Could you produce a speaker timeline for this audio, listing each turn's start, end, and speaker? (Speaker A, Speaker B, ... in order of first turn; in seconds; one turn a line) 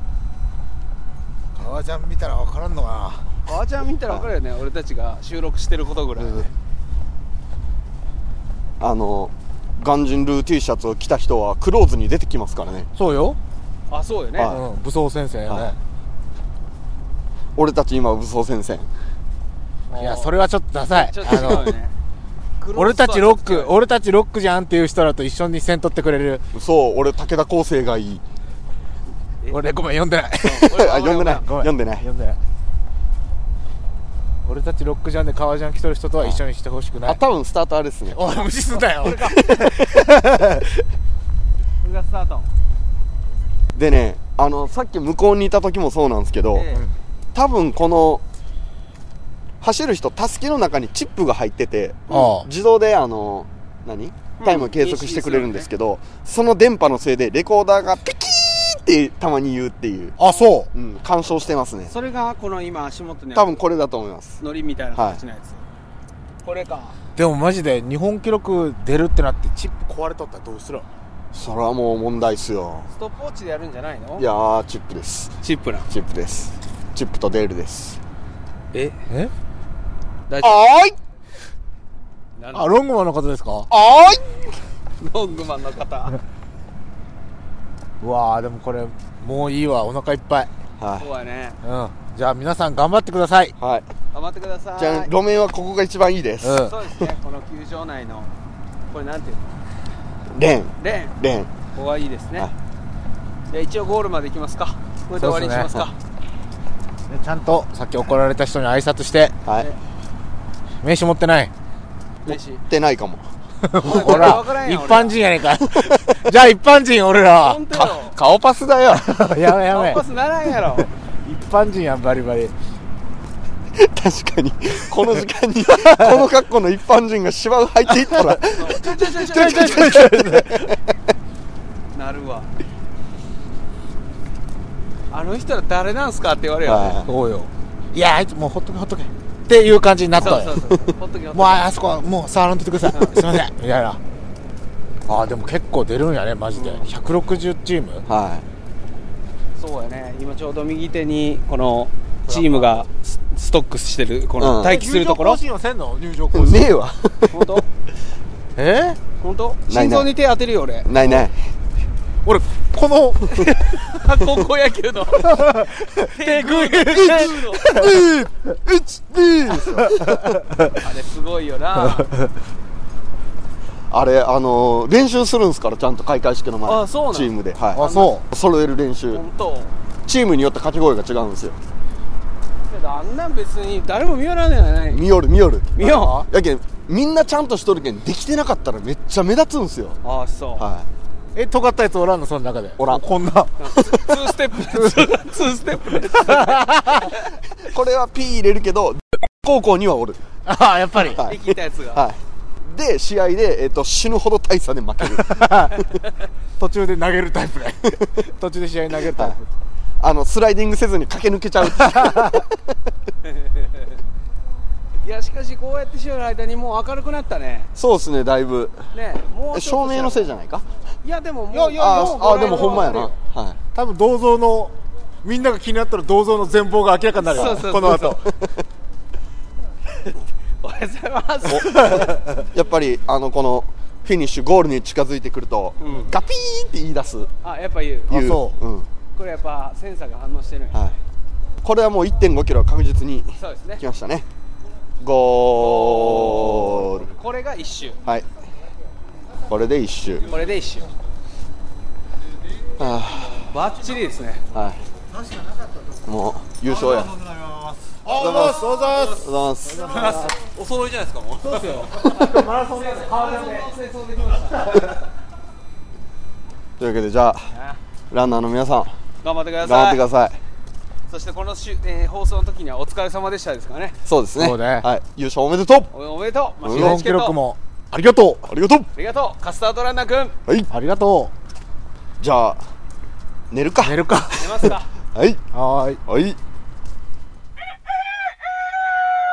Speaker A: 1.5-3.2
Speaker B: 3.5-6.5
Speaker C: 8.8-12.9
Speaker A: 12.9-13.4
Speaker B: 13.9-14.5
Speaker C: 14.4-14.6
Speaker A: 14.5-15.8
Speaker C: 15.5-15.7
Speaker C: 17.6-18.9
Speaker A: 19.9-21.7
Speaker B: 19.9-20.3
Speaker B: 20.9-21.9
Speaker B: 22.6-23.8
Speaker A: 22.7-26.4
Speaker C: 26.5-28.2
Speaker A: 29.5-32.4
Speaker B: 30.4-31.5
Speaker C: 30.7-32.0
Speaker A: 34.4-37.2
Speaker C: 37.0-38.2
Speaker A: 38.1-40.7
Speaker B: 38.7-39.4
Speaker C: 39.4-40.1
Speaker B: 41.8-42.5
Speaker C: 43.7-46.7
Speaker B: 46.5-46.9
Speaker C: 47.3-48.2
Speaker C: 49.6-60.1
Speaker A: 52.1-52.5
Speaker B: 54.4-55.7
Speaker A: 60.2-60.7
Speaker C: 60.7-61.9
Speaker B: 61.9-63.6
Speaker C: 63.3-64.4
Speaker B: 64.4-65.6
Speaker C: 64.9-65.2
Speaker B: 66.4-67.0
Speaker A: 67.2-70.8
Speaker C: 71.3-72.9
Speaker B: 72.9-74.2
Speaker C: 74.2-75.3
Speaker B: 75.4-75.9
Speaker C: 75.9-78.0
Speaker B: 78.7-79.0
Speaker B: 80.3-80.6
Speaker C: 80.4-80.9
Speaker B: 82.3-82.7
Speaker A: 82.5-83.7
Speaker C: 83.7-84.2
Speaker B: 85.0-86.2
Speaker A: 88.0-90.5
Speaker C: 90.8-91.1
Speaker B: 91.0-91.6
Speaker A: 91.6-93.5
Speaker C: 93.6-93.8
Speaker B: 94.1-95.1
Speaker C: 94.8-96.7
Speaker A: 96.4-96.7
Speaker B: 96.6-98.3
Speaker B: 98.9-99.5
Speaker C: 100.3-101.5
Speaker B: 100.8-101.1
Speaker B: 101.7-102.5
Speaker B: 103.5-105.9
Speaker A: 105.1-105.9
Speaker A: 107.1-109.3
Speaker A: 110.8-111.5
Speaker B: 112.2-112.6
Speaker C: 112.2-113.2
Speaker A: 113.6-117.7
Speaker B: 113.8-115.2
Speaker C: 113.9-114.4
Speaker B: 117.4-118.2
Speaker C: 117.7-119.2
Speaker A: 119.0-120.0
Speaker B: 119.7-120.9
Speaker A: 120.8-122.5
Speaker C: 123.7-130.8
Speaker A: 125.7-126.3
Speaker A: 127.9-128.4
Speaker B: 128.5-129.9
Speaker A: 129.3-130.6
Speaker B: 131.9-132.5
Speaker B: 135.1-137.0
Speaker C: 136.6-137.1
Speaker A: 137.0-140.6
Speaker B: 140.2-141.7
Speaker C: 140.2-140.8
Speaker A: 141.3-144.0
Speaker B: 142.9-143.2
Speaker A: 145.1-148.0
Speaker B: 146.5-146.9
Speaker C: 148.1-148.4
Speaker B: 149.6-155.4
Speaker A: 152.3-152.8
Speaker C: 154.4-154.8
Speaker A: 154.6-156.7
Speaker C: 156.3-157.5
Speaker B: 157.3-157.7
Speaker A: 158.6-159.0
Speaker B: 159.2-160.9
Speaker C: 159.7-160.1
Speaker C: 160.8-161.3
Speaker A: 160.9-161.2
Speaker A: 162.2-163.3
Speaker B: 163.3-165.5
Speaker A: 165.2-168.0
Speaker B: 166.1-167.8
Speaker C: 166.9-170.3
Speaker B: 170.8-172.1
Speaker A: 171.8-172.1
Speaker C: 173.9-179.2
Speaker B: 176.7-178.1
Speaker A: 177.7-178.2
Speaker B: 179.1-179.7
Speaker C: 180.0-181.6
Speaker B: 182.7-185.0
Speaker C: 184.9-190.0
Speaker B: 185.8-186.2
Speaker A: 185.8-186.3
Speaker B: 190.0-190.6
Speaker C: 190.6-190.9
Speaker A: 191.3-193.5
Speaker C: 192.8-193.0
Speaker B: 193.6-196.7
Speaker A: 196.2-197.1
Speaker C: 197.7-200.2
Speaker A: 200.4-201.2
Speaker C: 201.1-205.9
Speaker B: 201.2-202.0
Speaker A: 205.0-205.7
Speaker A: 206.6-209.5
Speaker C: 210.0-212.4
Speaker A: 211.7-212.4
Speaker B: 213.3-213.8
Speaker B: 215.0-217.7
Speaker C: 217.8-218.8
Speaker B: 218.9-220.3
Speaker C: 219.5-220.7
Speaker B: 221.0-223.1
Speaker A: 221.5-223.1
Speaker C: 221.7-223.6
Speaker A: 223.7-228.3
Speaker B: 227.3-228.2
Speaker B: 230.6-232.0
Speaker C: 231.5-237.3
Speaker A: 231.9-232.2
Speaker B: 235.8-236.1
Speaker B: 237.4-238.1
Speaker C: 238.1-238.9
Speaker A: 238.1-238.6
Speaker B: 239.1-240.8
Speaker C: 241.6-244.2
Speaker B: 243.4-243.8
Speaker C: 245.0-247.1
Speaker B: 245.6-248.0
Speaker C: 249.5-250.3
Speaker B: 250.2-250.9
Speaker C: 252.8-253.4
Speaker B: 253.5-254.4
Speaker C: 254.5-254.8
Speaker C: 256.1-257.2
Speaker A: 258.0-259.3
Speaker C: 258.1-260.3
Speaker A: 261.4-263.7
Speaker B: 262.7-264.9
Speaker C: 266.8-267.5
Speaker C: 268.1-268.9
Speaker B: 269.2-270.0
Speaker C: 269.6-270.4
Speaker B: 271.1-273.9
Speaker C: 274.1-275.9
Speaker A: 274.4-274.9
Speaker B: 275.9-277.4
Speaker C: 276.6-277.0
Speaker A: 276.7-278.5
Speaker C: 278.5-278.9
Speaker B: 278.9-280.3
Speaker A: 280.7-281.3
Speaker C: 282.2-282.6
Speaker C: 283.5-284.0
Speaker A: 283.8-284.7
Speaker B: 284.4-284.9
Speaker C: 285.1-285.4
Speaker A: 285.5-286.0
Speaker C: 286.1-286.4